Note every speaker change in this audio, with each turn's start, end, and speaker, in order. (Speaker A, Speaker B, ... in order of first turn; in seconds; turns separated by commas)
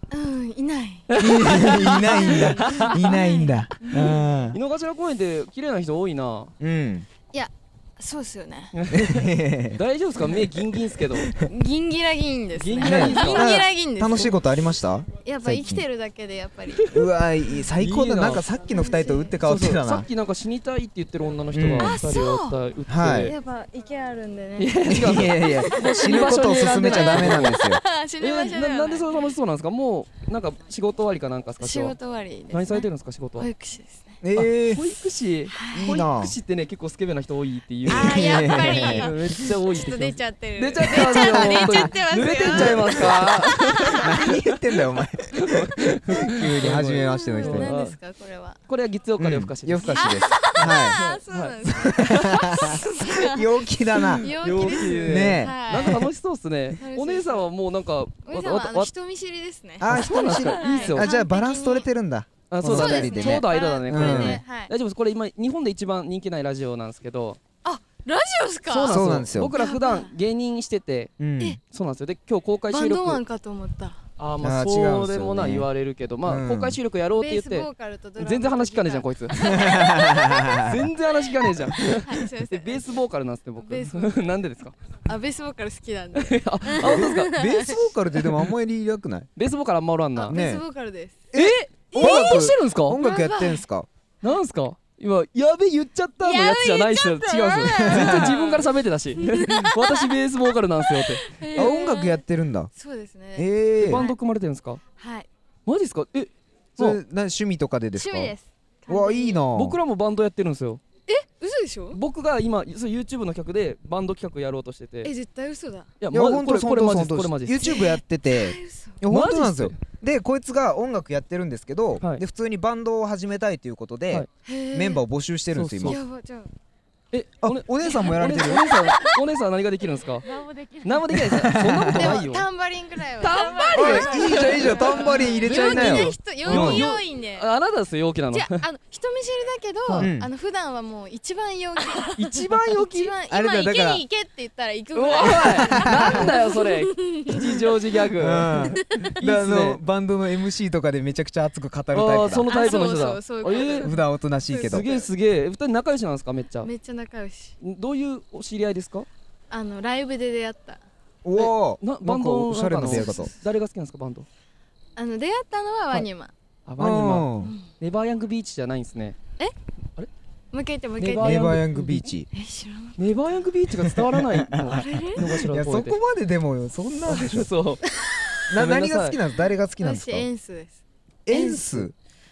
Speaker A: 0.1-4.2, Speaker B: 1.1-3.0, Speaker C: 1.2-4.6, Speaker B: 3.9-6.5, Speaker C: 6.6-7.1, Speaker A: 7.3-8.7, Speaker B: 8.7-11.3, Speaker C: 8.9-9.8, Speaker A: 11.3-14.4, Speaker B: 12.6-13.5, Speaker C: 12.8-15.8, Speaker A: 15.1-17.0, Speaker B: 16.7-17.1, Speaker C: 16.9-20.1, Speaker B: 17.7-18.5, Speaker A: 18.6-19.3, Speaker B: 19.4-23.3, Speaker C: 21.5-22.0, Speaker A: 21.8-22.6, Speaker C: 22.9-23.3, Speaker A: 23.2-29.4, Speaker B: 24.6-27.7, Speaker C: 24.8-27.8, Speaker B: 28.2-31.9, Speaker A: 31.6-34.2, Speaker B: 32.5-33.5, Speaker C: 34.2-34.9, Speaker B: 34.3-44.6, Speaker A: 35.5-36.0, Speaker C: 35.7-36.3, Speaker C: 37.9-39.1, Speaker A: 37.9-44.4, Speaker C: 41.0-41.9, Speaker C: 43.8-47.7, Speaker B: 45.3-48.0, Speaker A: 46.8-48.6, Speaker B: 48.7-52.1, Speaker C: 49.2-51.0, Speaker A: 49.8-56.1, Speaker C: 51.6-56.0, Speaker B: 54.2-58.9, Speaker A: 56.7-57.5, Speaker A: 58.2-61.9, Speaker C: 59.8-64.4, Speaker B: 59.8-61.1, Speaker B: 62.5-67.4, Speaker A: 62.6-64.7, Speaker A: 67.6-70.1, Speaker B: 68.7-73.2, Speaker C: 68.9-69.5, Speaker C: 71.2-71.6, Speaker A: 72.7-74.0, Speaker B: 74.2-79.8, Speaker C: 74.4-75.7, Speaker C: 76.2-76.8, Speaker A: 77.2-80.7, Speaker C: 79.5-80.9, Speaker B: 80.6-84.7, Speaker A: 81.4-83.0, Speaker A: 83.6-84.3, Speaker A: 85.0-87.8, Speaker B: 86.1-87.3, Speaker C: 86.8-89.3, Speaker B: 89.3-90.4, Speaker A: 90.2-91.2, Speaker C: 90.3-90.6, Speaker B: 91.3-93.0, Speaker C: 91.3-93.9, Speaker A: 91.9-93.6, Speaker B: 94.2-101.3, Speaker A: 96.2-102.2, Speaker C: 97.7-98.4, Speaker C: 101.5-102.7, Speaker A: 102.7-104.2, Speaker C: 103.3-104.0, Speaker B: 103.8-104.8, Speaker A: 105.0-105.3, Speaker B: 105.7-107.0, Speaker C: 106.8-108.3, Speaker A: 107.9-109.5, Speaker C: 108.9-109.8, Speaker B: 109.5-110.8, Speaker A: 111.1-112.0, Speaker B: 111.9-115.1, Speaker A: 115.0-115.9, Speaker B: 116.0-117.8, Speaker C: 116.1-126.0, Speaker A: 117.6-119.0, Speaker B: 119.1-119.8, Speaker A: 124.4-125.0, Speaker B: 125.5-126.0, Speaker A: 125.8-126.5, Speaker B: 127.1-132.5, Speaker C: 127.4-128.9, Speaker A: 128.0-129.2, Speaker A: 130.2-131.1, Speaker C: 131.2-132.2, Speaker A: 131.8-137.5, Speaker B: 133.2-138.6, Speaker C: 133.7-136.9, Speaker A: 138.3-147.8, Speaker C: 140.0-140.3, Speaker B: 142.2-143.1, Speaker C: 143.3-144.0, Speaker B: 144.9-149.8, Speaker C: 145.6-146.3, Speaker C: 148.2-152.5, Speaker A: 148.6-149.2, Speaker B: 151.9-153.9, Speaker A: 152.4-155.1, Speaker C: 153.8-154.9, Speaker B: 154.5-156.7, Speaker A: 156.6-157.5, Speaker B: 157.6-159.1, Speaker A: 159.5-160.8, Speaker C: 161.2-163.3, Speaker B: 161.3-164.3, Speaker A: 162.8-163.3, Speaker A: 164.9-166.3, Speaker B: 166.7-169.2, Speaker C: 166.8-167.5, Speaker A: 167.4-167.7, Speaker A: 170.5-171.6, Speaker B: 171.0-172.1, Speaker C: 171.2-172.3, Speaker A: 172.3-172.9, Speaker B: 173.0-176.0, Speaker C: 173.8-177.5, Speaker A: 174.6-175.3, Speaker B: 177.1-177.8, Speaker A: 177.9-178.4, Speaker C: 178.5-180.3, Speaker B: 178.5-179.2, Speaker A: 179.8-180.8, Speaker C: 181.2-181.9, Speaker A: 181.3-181.8